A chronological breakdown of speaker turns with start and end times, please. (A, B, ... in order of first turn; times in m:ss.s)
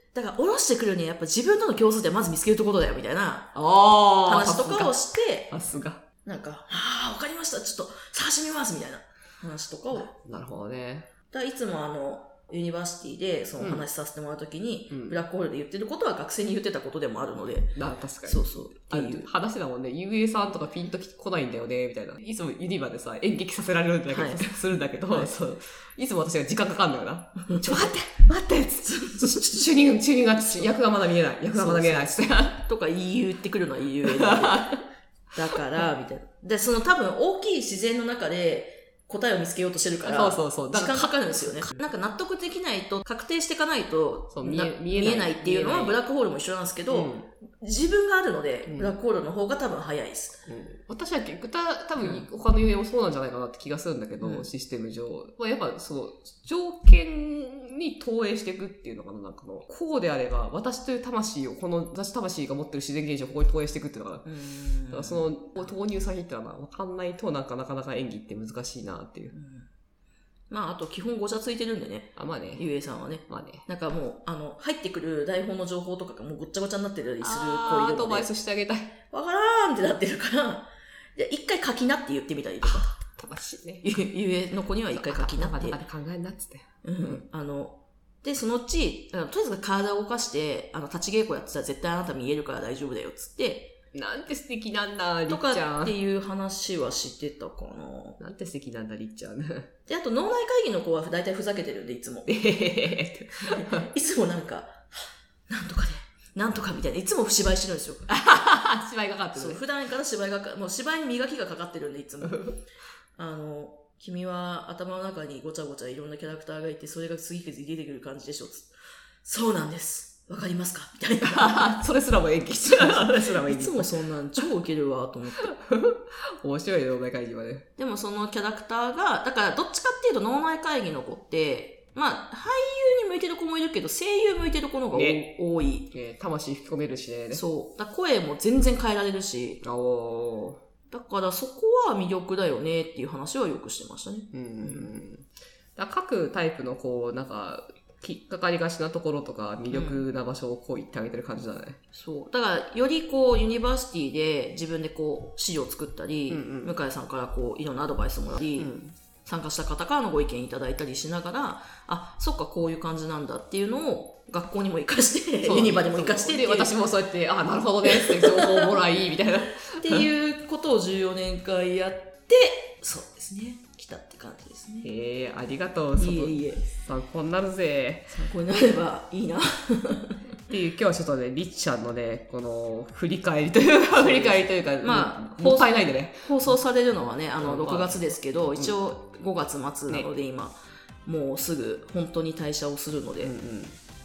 0:00.1-0:03.5 A
0:03.5-0:04.9 B
0:04.2-0:05.5 A
0:05.5-0:06.0 B
0:06.2-0:10.1 A
0:10.1-0:11.1 B
0:11.3-0:19.3 A
0:13.6-0:13.8 B
0:14.9-0:15.2 B
0:17.8-0:32.6 B
0:24.1-0:25.4 A
0:27.4-0:28.0 A
0:28.8-0:30.8 A
0:31.5-0:34.8 A
0:34.1-0:34.8 B
0:35.3-0:50.4 A
0:40.0-0:41.8 B
0:44.3-0:46.0 B
0:46.9-0:47.3 B
0:48.7-0:49.0 B
0:50.5-1:04.3 B
0:54.2-0:54.5 A
1:04.3-1:05.7 A
1:04.9-1:09.3 B
1:09.3-1:09.7 A
1:10.5-1:18.3 A
1:12.2-1:12.7 B
1:13.3-1:13.6 B
1:17.2-1:19.0 B
1:19.1-1:22.9 A
1:22.6-1:23.8 B
1:23.8-1:25.8 A
1:24.9-1:27.2 B
1:26.8-1:33.8 A
1:33.9-1:36.0 B
1:35.3-1:38.2 A
1:38.2-1:39.7 B
1:39.9-1:42.3 A
1:42.3-1:43.9 B
1:43.4-1:48.1 A
1:48.1-1:49.6 B
1:49.3-1:52.5 A
1:52.2-1:52.6 B
1:53.2-1:58.7 A
1:59.2-2:01.8 A
2:01.2-2:04.4 B
2:02.6-2:05.5 A
2:05.4-2:07.7 B
2:07.8-2:15.9 A
2:14.9-2:15.4 B
2:15.9-2:17.4 B
2:17.3-2:19.6 A
2:19.6-2:20.6 B
2:20.9-2:24.9 A
2:24.3-2:31.8 B
2:29.7-2:30.0 A
2:31.9-2:38.7 A
2:36.3-2:36.8 B
2:38.6-2:39.0 B
2:39.2-2:46.7 A
2:45.4-2:50.1 B
2:47.9-2:48.7 A
2:49.8-2:54.9 A
2:54.8-2:58.2 B
2:56.0-2:56.7 A
2:58.1-3:00.2 A
3:00.5-3:06.5 B
3:03.9-3:13.3 A
3:07.4-3:08.7 B
3:13.2-3:13.8 B